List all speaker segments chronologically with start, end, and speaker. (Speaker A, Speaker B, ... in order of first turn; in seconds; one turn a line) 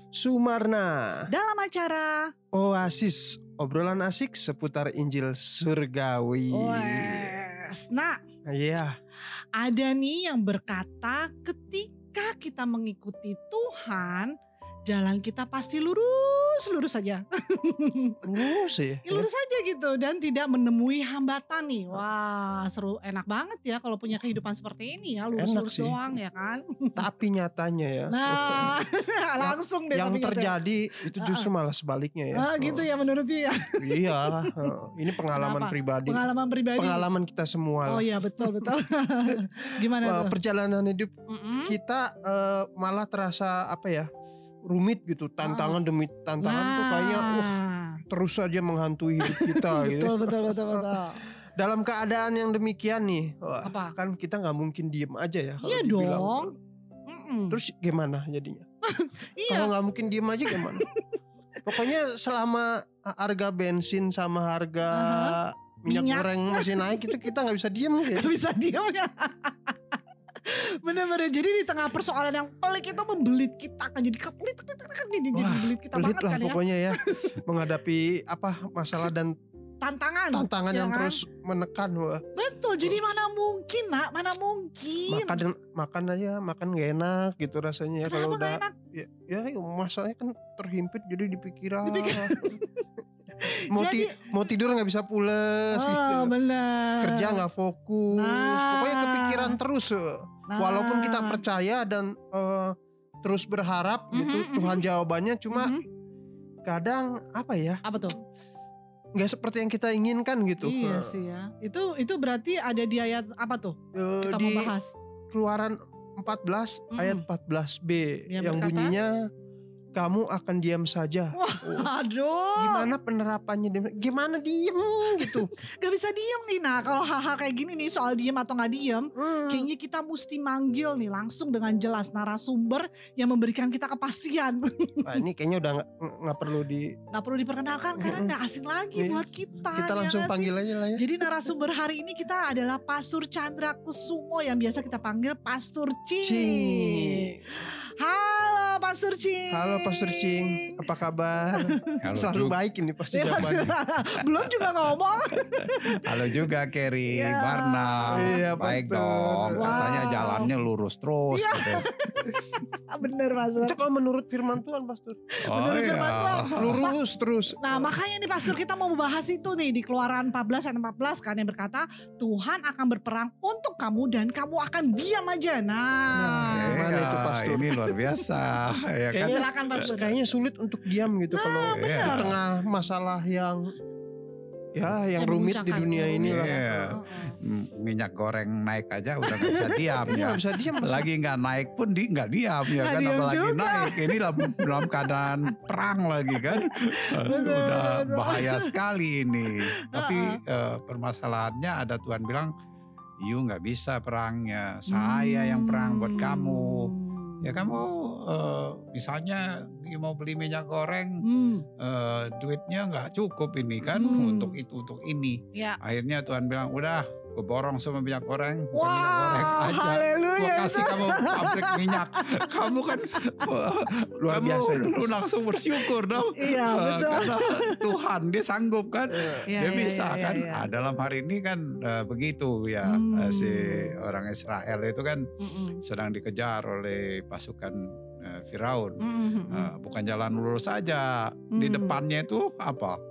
Speaker A: 0.1-1.0
Speaker B: 1.3-2.3
Speaker A: 2.5-7.4
Speaker B: 6.5-8.2
Speaker A: 8.5-8.9
Speaker B: 9.6-14.3
Speaker B: 14.9-27.0
Speaker A: 18.2-19.3
Speaker A: 25.4-26.0
Speaker A: 26.9-28.7
Speaker B: 28.1-30.5
Speaker A: 29.4-32.9
Speaker B: 31.1-31.5
Speaker B: 32.3-34.5
Speaker A: 33.8-36.2
Speaker B: 35.3-37.0
Speaker A: 36.8-38.7
Speaker B: 37.9-40.4
Speaker A: 40.0-41.1
Speaker B: 41.3-41.7
Speaker A: 41.6-44.1
Speaker A: 44.7-51.0
Speaker B: 45.4-45.8
Speaker B: 46.4-48.0
Speaker B: 49.2-51.2
Speaker A: 51.5-56.5
Speaker B: 53.6-53.9
Speaker B: 55.6-56.5
Speaker B: 57.1-57.6
Speaker A: 57.5-58.6
Speaker B: 58.8-59.7
Speaker A: 59.5-60.9
Speaker B: 60.5-61.1
Speaker A: 61.6-68.3
Speaker B: 64.9-67.2
Speaker B: 68.1-77.4
Speaker A: 75.3-79.3
Speaker B: 79.8-81.2
Speaker A: 80.3-82.2
Speaker B: 82.3-85.4
Speaker A: 85.1-92.5
Speaker B: 88.0-88.7
Speaker B: 91.8-92.8
Speaker B: 93.4-94.2
Speaker A: 93.7-96.3
Speaker B: 95.8-97.4
Speaker A: 97.0-102.7
Speaker B: 98.2-99.6
Speaker B: 100.5-101.4
Speaker A: 103.2-105.8
Speaker B: 104.1-104.8
Speaker B: 105.5-105.8
Speaker A: 106.6-107.8
Speaker B: 107.8-108.2
Speaker A: 109.2-111.1
Speaker B: 110.6-114.9
Speaker A: 113.9-114.7
Speaker A: 115.3-119.2
Speaker B: 116.9-117.2
Speaker B: 118.3-118.9
Speaker A: 119.9-121.9
Speaker B: 121.3-122.9
Speaker A: 122.5-125.5
Speaker B: 125.2-135.1
Speaker A: 129.2-129.7
Speaker A: 135.0-136.9
Speaker B: 137.1-150.8
Speaker A: 138.0-138.3
Speaker A: 138.9-141.0
Speaker A: 146.2-147.4
Speaker A: 149.5-153.7
Speaker B: 151.7-151.9
Speaker C: 152.0-152.6
Speaker B: 153.1-156.1
Speaker C: 154.4-154.8
Speaker C: 156.0-161.9
Speaker B: 157.1-158.4
Speaker A: 158.1-160.1
Speaker B: 159.5-160.5
Speaker B: 161.3-163.8
Speaker A: 163.6-165.2
Speaker B: 165.4-166.9
Speaker C: 165.5-166.8
Speaker A: 166.6-167.9
Speaker B: 167.6-176.8
Speaker A: 176.1-177.7
Speaker C: 176.5-179.8
Speaker A: 179.1-183.6
Speaker B: 179.2-180.1
Speaker B: 181.3-182.3
Speaker C: 181.7-182.4
Speaker A: 184.7-187.0
Speaker B: 185.2-187.3
Speaker C: 186.2-186.9
Speaker C: 187.4-202.5
Speaker B: 189.3-190.0
Speaker A: 190.1-191.1
Speaker B: 192.7-195.1
Speaker B: 196.3-198.7
Speaker B: 199.8-200.4
Speaker C: 203.2-206.9
Speaker B: 204.9-207.8
Speaker C: 207.4-211.2
Speaker B: 211.2-211.7
Speaker C: 211.8-235.2
Speaker B: 213.8-214.6
Speaker B: 218.7-221.9
Speaker A: 224.2-225.1
Speaker B: 226.3-227.8
Speaker B: 229.5-230.6
Speaker B: 232.8-233.9
Speaker B: 235.4-235.8
Speaker C: 235.8-243.0
Speaker B: 239.0-239.7
Speaker B: 241.6-242.0